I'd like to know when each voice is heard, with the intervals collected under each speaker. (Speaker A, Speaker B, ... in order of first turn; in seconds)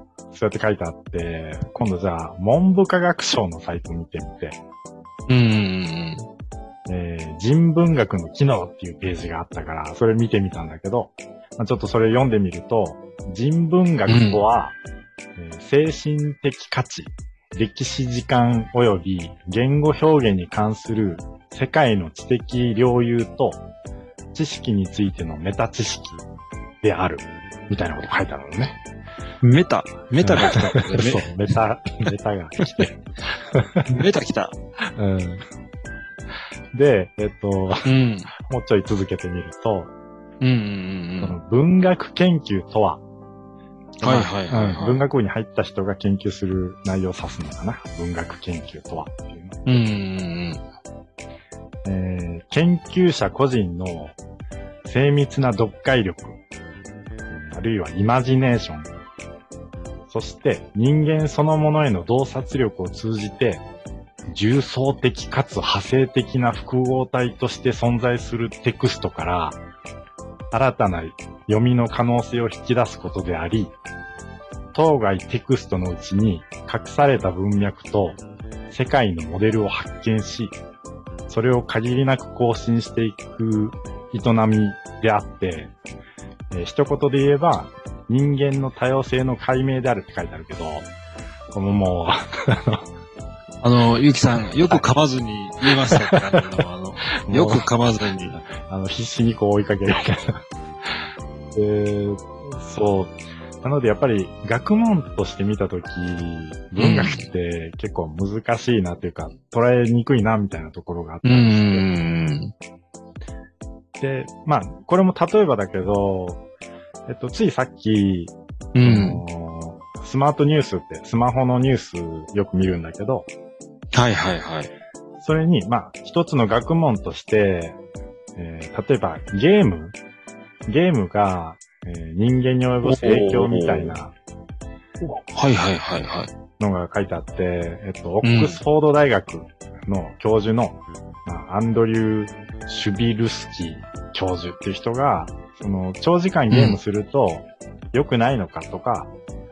Speaker A: 0.3-4.6, 6.9-14.8, 15.4-23.6, 24.3-26.2, 26.8-28.8, 30.2-33.0, 33.5-33.9, 35.0-35.4, 36.7-39.9, 41.2-43.0, 44.0-49.8, 51.9-54.2, 54.9-56.4, 57.3-58.9, 60.1-63.6, 64.3-69.6, 70.5-73.8, 74.7-78.2, 78.7-80.6, 81.3-85.7, 86.5-90.9, 91.5-92.8, 95.9-96.4, 97.2-97.7, 98.4-100.4, 101.5-111.9, 114.0-116.4, 117.1-123.3, 125.2-127.8, 128.4-130.0, 130.7-134.1, 136.6-149.1
Speaker B: 5.3-6.3, 14.1-14.4, 29.4-31.3, 33.9-34.5, 37.9-38.3, 40.4-41.4, 44.0-45.0, 49.6-50.6, 93.6-98.4, 106.8-107.2, 111.2-112.5, 118.8-119.2, 123.9-124.7, 132.8-134.0, 135.3-136.3, 138.2-138.6, 146.5-146.8